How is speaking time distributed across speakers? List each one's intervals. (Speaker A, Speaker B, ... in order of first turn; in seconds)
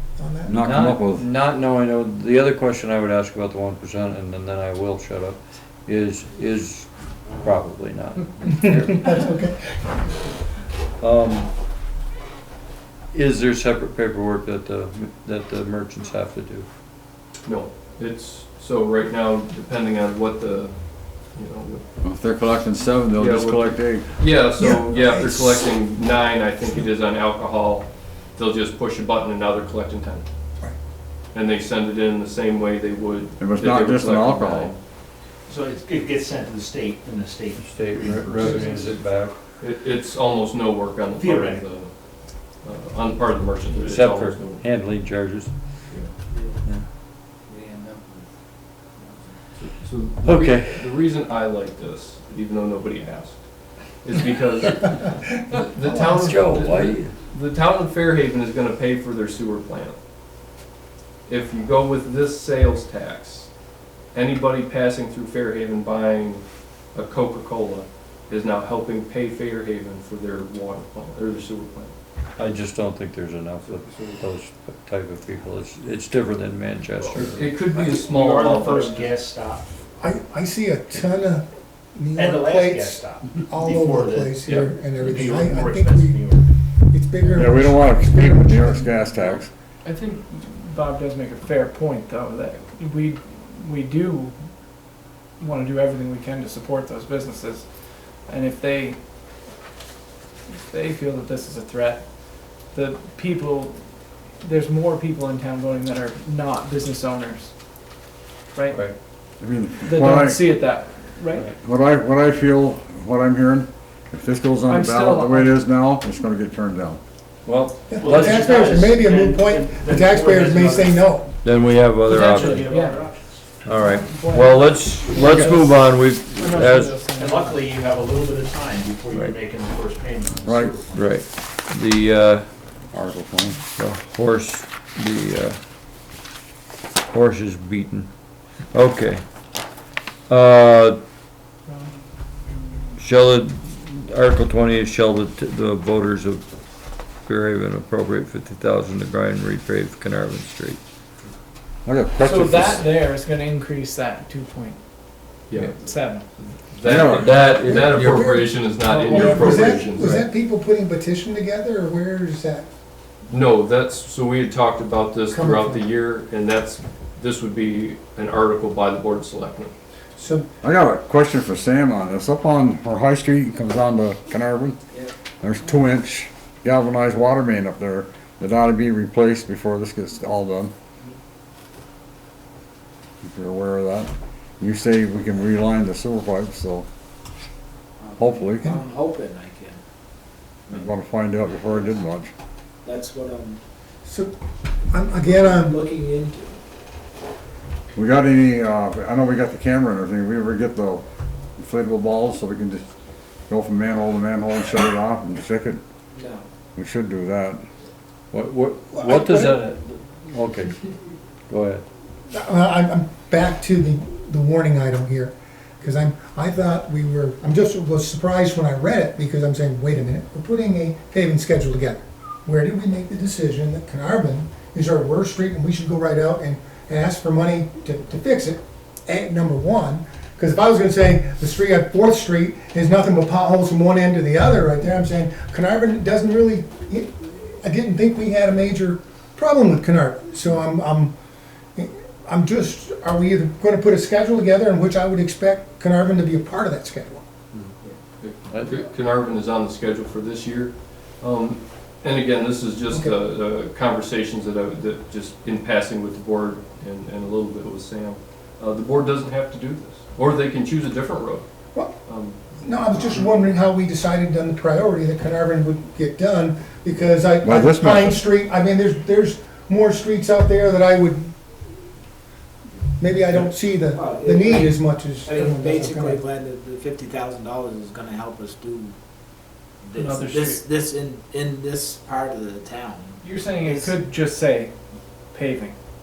Speaker A: 0.2-0.5, 8.5-10.1, 24.6-25.7, 55.9-56.3, 80.0-86.2, 86.9-89.1, 117.9-121.3, 157.6-162.7, 165.3-165.8, 170.2-170.5, 194.0-194.3, 194.9-195.8, 208.9-209.6, 212.3-241.1, 241.8-247.2, 262.6-271.4, 273.0-276.2
Speaker B: 0.5-1.2, 22.0-24.1, 33.4-34.7, 87.3-89.5, 109.4-110.4, 111.6-117.0, 130.4-130.8, 132.9-133.6, 151.8-152.9, 156.8-157.3, 170.6-174.8, 175.4-180.7, 183.2-186.9, 188.2-188.7, 190.7-192.3, 197.9-201.0, 201.6-202.8, 203.5-205.8, 206.8-207.6, 267.4-268.2
Speaker C: 0.5-9.1, 11.0-11.5, 13.1-16.6, 37.6-39.3, 43.7-45.5, 50.2-50.9, 56.0-57.1, 72.4-77.6, 108.7-109.0, 117.4-118.8, 121.4-122.7, 123.6-127.0, 130.9-132.8, 133.7-135.6, 137.1-138.1, 138.7-139.2, 140.3-141.0, 143.0-150.8, 157.1-158.4, 208.3-210.8, 211.5-211.8, 248.5-248.8
Speaker D: 17.4-20.8, 21.3-21.8, 23.1-30.2, 31.3-34.8, 39.6-44.6, 49.6-60.0, 61.3-63.5, 64.1-71.9, 73.6-74.2, 77.0-79.1, 155.5-160.3, 163.3-169.7, 248.2-261.5, 262.1-262.4
Speaker E: 35.5-38.9, 41.2-41.7, 77.7-79.7, 82.2-84.5, 85.0-86.4, 117.9-121.2, 122.0-123.6, 126.6-131.1
Speaker F: 47.5-48.2, 188.0-189.8, 192.8-193.6, 195.2-196.6, 206.1-206.5, 273.3-278.9, 279.8-284.0
Speaker G: 89.8-99.0, 100.6-107.9, 108.5-108.9, 109.8-111.5, 114.7-115.6, 122.1-123.1, 123.7-127.7, 141.7-142.7, 152.2-154.8, 155.6-156.3, 158.8-160.1, 280.0-280.6, 283.2-284.8, 285.3-285.7